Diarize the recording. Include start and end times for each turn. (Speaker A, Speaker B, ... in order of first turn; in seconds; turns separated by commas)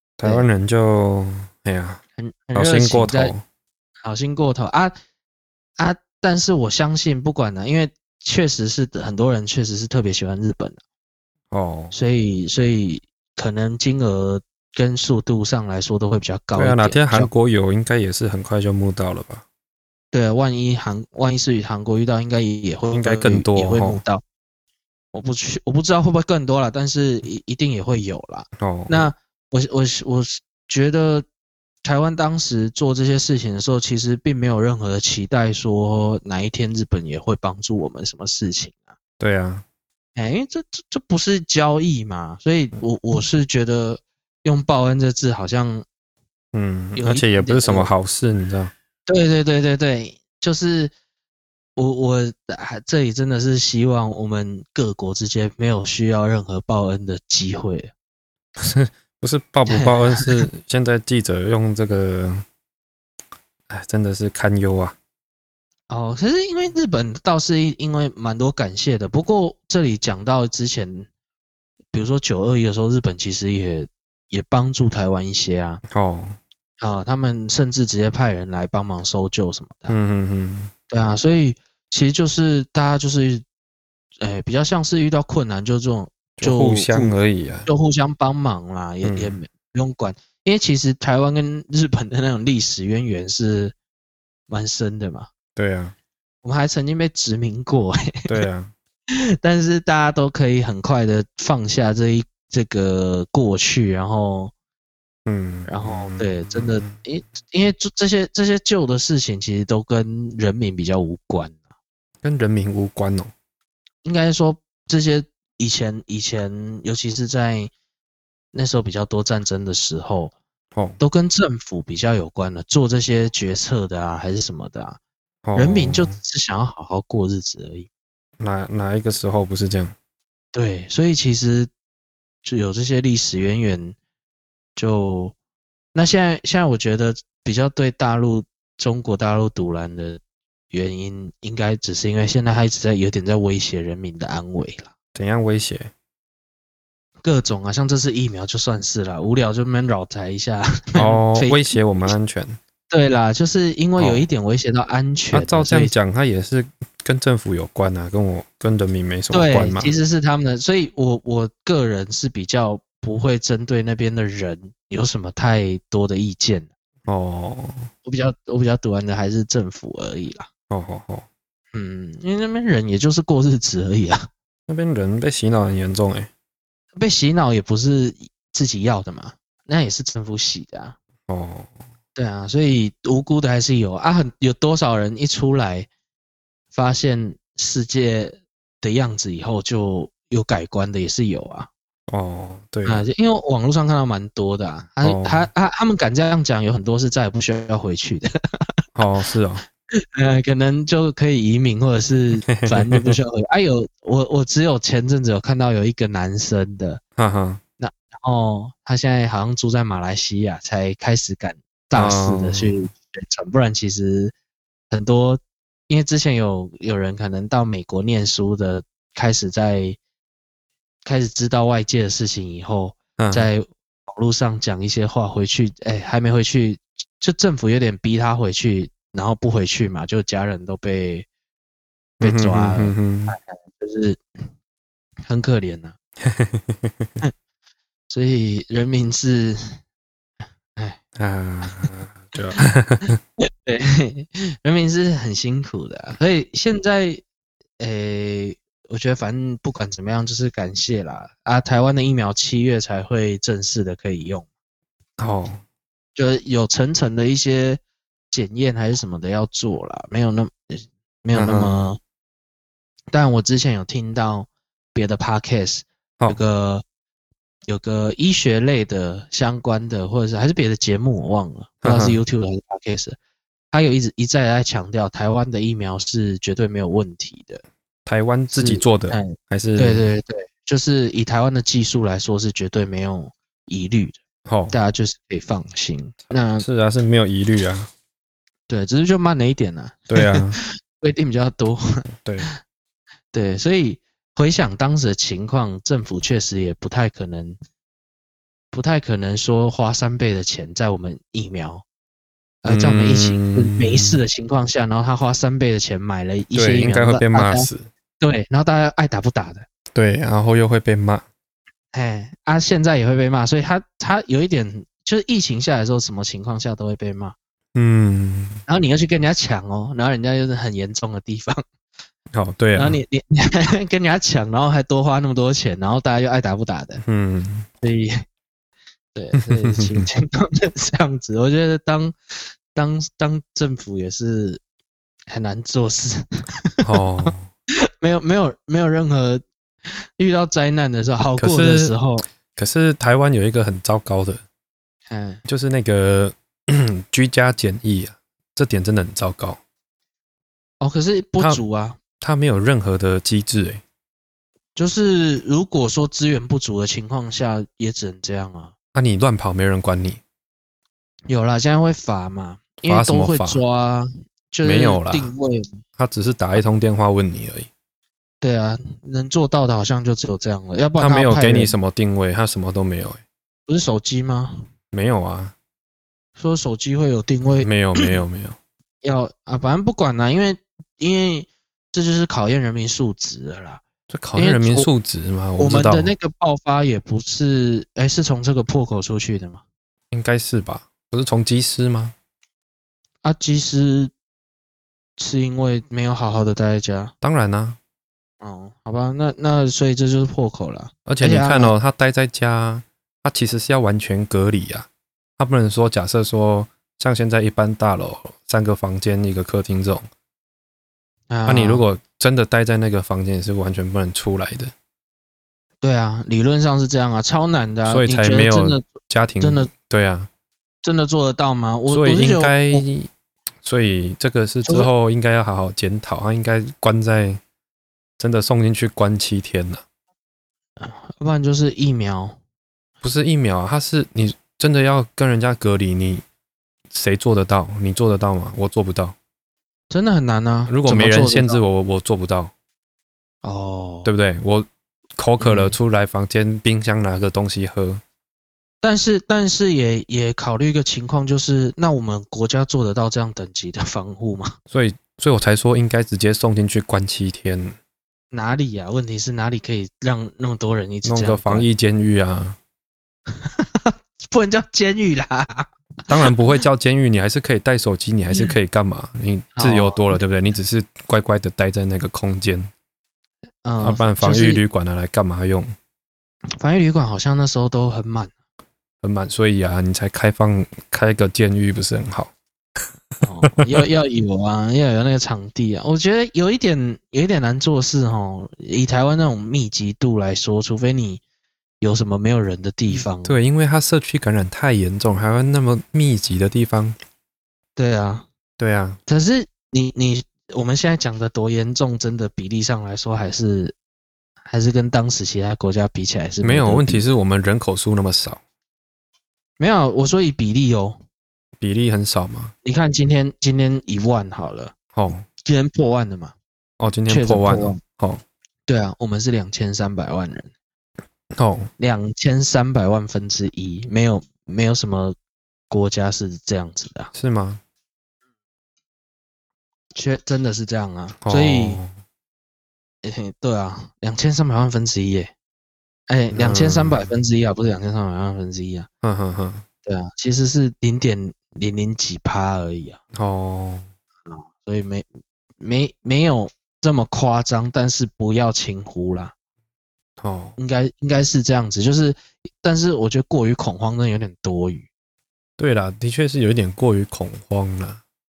Speaker A: 0.2-2.0, Speaker B: 2.2-3.3, Speaker A: 2.5-3.4, Speaker B: 4.0-5.0, Speaker B: 5.8-10.8, Speaker A: 11.5-12.0, Speaker B: 11.9-17.3, Speaker A: 16.5-19.4, Speaker B: 20.1-24.2, Speaker A: 22.9-24.0, Speaker B: 25.1-31.3, Speaker A: 28.6-29.1, Speaker B: 31.8-38.9, Speaker A: 39.2-39.6, Speaker B: 40.2-45.9, Speaker A: 46.5-48.7, Speaker B: 47.0-47.9, Speaker B: 49.1-50.9, Speaker B: 51.8-57.9, Speaker A: 58.6-62.5, Speaker B: 59.7-60.5, Speaker A: 63.7-65.0, Speaker B: 65.9-71.1, Speaker B: 71.9-75.8, Speaker A: 75.9-76.4, Speaker B: 76.8-80.0, Speaker A: 79.9-80.7, Speaker B: 80.9-83.5, Speaker B: 84.2-93.8, Speaker A: 86.4-87.7, Speaker A: 89.0-89.4, Speaker B: 94.5-95.3, Speaker A: 95.6-96.0, Speaker B: 96.4-98.3, Speaker A: 98.3-98.7, Speaker B: 99.1-104.5, Speaker A: 105.3-107.0, Speaker B: 105.7-111.6, Speaker A: 112.2-113.3, Speaker B: 114.0-117.7, Speaker B: 118.5-120.3, Speaker A: 120.8-121.0, Speaker B: 121.0-125.0, Speaker A: 125.5-126.2, Speaker B: 125.5-127.9, Speaker A: 128.4-129.9, Speaker B: 130.5-131.7, Speaker B: 132.4-134.0, Speaker B: 134.8-135.3, Speaker B: 135.9-144.9, Speaker A: 145.2-145.9, Speaker B: 147.2-152.1, Speaker A: 151.0-152.6, Speaker B: 152.9-155.9, Speaker A: 154.0-154.3, Speaker A: 155.3-159.9, Speaker B: 159.3-166.7, Speaker A: 167.1-167.9, Speaker B: 168.1-170.5, Speaker A: 170.7-171.3, Speaker B: 171.7-174.3, Speaker A: 174.7-176.3, Speaker B: 177.0-181.0, Speaker A: 181.3-181.7, Speaker B: 182.2-185.9, Speaker B: 186.7-191.7, Speaker A: 192.1-193.0, Speaker B: 192.8-198.3, Speaker A: 195.0-195.5, Speaker A: 198.9-199.6, Speaker B: 200.0-207.0, Speaker A: 202.5-203.2, Speaker A: 207.2-207.6, Speaker B: 207.8-214.3, Speaker A: 211.9-212.8, Speaker B: 214.9-220.0, Speaker B: 221.1-231.3, Speaker A: 223.2-223.5, Speaker A: 232.2-233.4, Speaker B: 232.2-234.2, Speaker B: 235.3-236.0, Speaker A: 236.2-237.2, Speaker B: 238.1-239.8, Speaker A: 241.2-243.2, Speaker B: 241.7-241.9, Speaker B: 243.4-247.2, Speaker B: 247.8-254.5, Speaker A: 255.2-255.6, Speaker B: 256.1-262.0, Speaker A: 261.3-261.8, Speaker B: 263.1-266.8, Speaker B: 267.7-273.2, Speaker A: 271.8-272.2, Speaker B: 273.7-277.6, Speaker A: 278.1-280.1, Speaker B: 278.5-284.2, Speaker A: 284.5-284.8, Speaker B: 284.7-286.6, Speaker A: 286.6-287.9, Speaker B: 288.7-292.5, Speaker A: 290.1-290.6, Speaker A: 292.2-292.5, Speaker B: 293.3-297.6, Speaker B: 298.7-301.8, Speaker B: 302.6-307.7, Speaker A: 302.7-304.2, Speaker A: 306.5-307.9, Speaker B: 308.2-309.7, Speaker A: 309.9-311.2, Speaker B: 311.9-317.4, Speaker A: 317.8-318.6, Speaker B: 318.7-321.6, Speaker A: 322.3-323.0, Speaker B: 322.8-327.0, Speaker A: 327.0-327.7, Speaker B: 327.8-328.2, Speaker B: 329.1-334.6, Speaker A: 329.4-330.1, Speaker B: 335.3-337.3, Speaker A: 336.8-337.5, Speaker B: 338.0-342.3, Speaker A: 341.4-342.0, Speaker A: 342.5-344.4, Speaker B: 345.1-345.4, Speaker A: 345.5-349.6, Speaker B: 350.8-352.0, Speaker A: 352.2-353.8, Speaker B: 354.8-358.7, Speaker A: 358.9-360.2, Speaker B: 361.3-365.8, Speaker A: 362.8-363.6, Speaker A: 364.6-365.3, Speaker A: 366.0-367.7, Speaker B: 368.4-371.8, Speaker A: 371.0-373.2, Speaker B: 373.7-374.6, Speaker A: 374.9-375.6, Speaker B: 376.4-378.1, Speaker A: 377.6-378.6, Speaker B: 379.0-383.8, Speaker A: 384.1-386.1, Speaker B: 384.4-384.9, Speaker B: 385.6-389.6, Speaker A: 390.1-392.1, Speaker B: 393.2-394.1, Speaker B: 395.2-397.1, Speaker A: 397.2-397.8, Speaker B: 398.4-401.7, Speaker A: 401.1-410.1, Speaker B: 411.3-411.9, Speaker A: 411.5-414.7, Speaker B: 415.8-419.7, Speaker A: 417.9-420.3, Speaker B: 420.8-422.8, Speaker A: 421.9-423.1, Speaker A: 423.6-427.4, Speaker B: 424.6-424.9, Speaker A: 428.2-429.8, Speaker B: 430.8-432.4, Speaker A: 433.0-436.2, Speaker A: 436.9-439.2, Speaker B: 439.9-441.6, Speaker A: 440.7-442.5, Speaker B: 443.4-444.1, Speaker A: 444.1-448.0, Speaker B: 445.4-445.8, Speaker B: 448.8-454.6, Speaker A: 454.7-457.8, Speaker B: 458.3-461.7, Speaker A: 461.0-462.6, Speaker B: 463.4-466.3, Speaker A: 466.1-472.7, Speaker B: 469.6-470.2, Speaker B: 473.6-474.6, Speaker A: 473.8-475.8, Speaker B: 476.6-478.3, Speaker A: 479.0-482.3, Speaker B: 483.2-491.2, Speaker B: 491.8-493.4, Speaker A: 492.9-497.0, Speaker B: 497.8-498.3, Speaker A: 498.6-499.0, Speaker B: 499.1-503.8, Speaker B: 504.5-507.1, Speaker A: 506.4-508.4, Speaker B: 509.6-511.0, Speaker A: 511.6-512.5, Speaker B: 512.6-514.7, Speaker A: 514.9-515.2, Speaker B: 515.4-516.4, Speaker A: 516.8-518.2, Speaker B: 517.1-517.8, Speaker B: 518.7-520.5, Speaker A: 521.3-521.7, Speaker B: 521.8-525.2, Speaker B: 525.7-527.1, Speaker A: 527.1-527.6, Speaker B: 529.9-531.8, Speaker A: 531.2-531.9, Speaker B: 533.0-535.3, Speaker B: 536.1-538.9, Speaker A: 536.3-537.0, Speaker A: 539.0-539.6, Speaker B: 539.9-543.0, Speaker A: 543.1-543.9, Speaker B: 544.3-545.1, Speaker B: 545.6-549.3, Speaker A: 550.2-550.6, Speaker B: 550.6-554.9, Speaker A: 555.6-558.0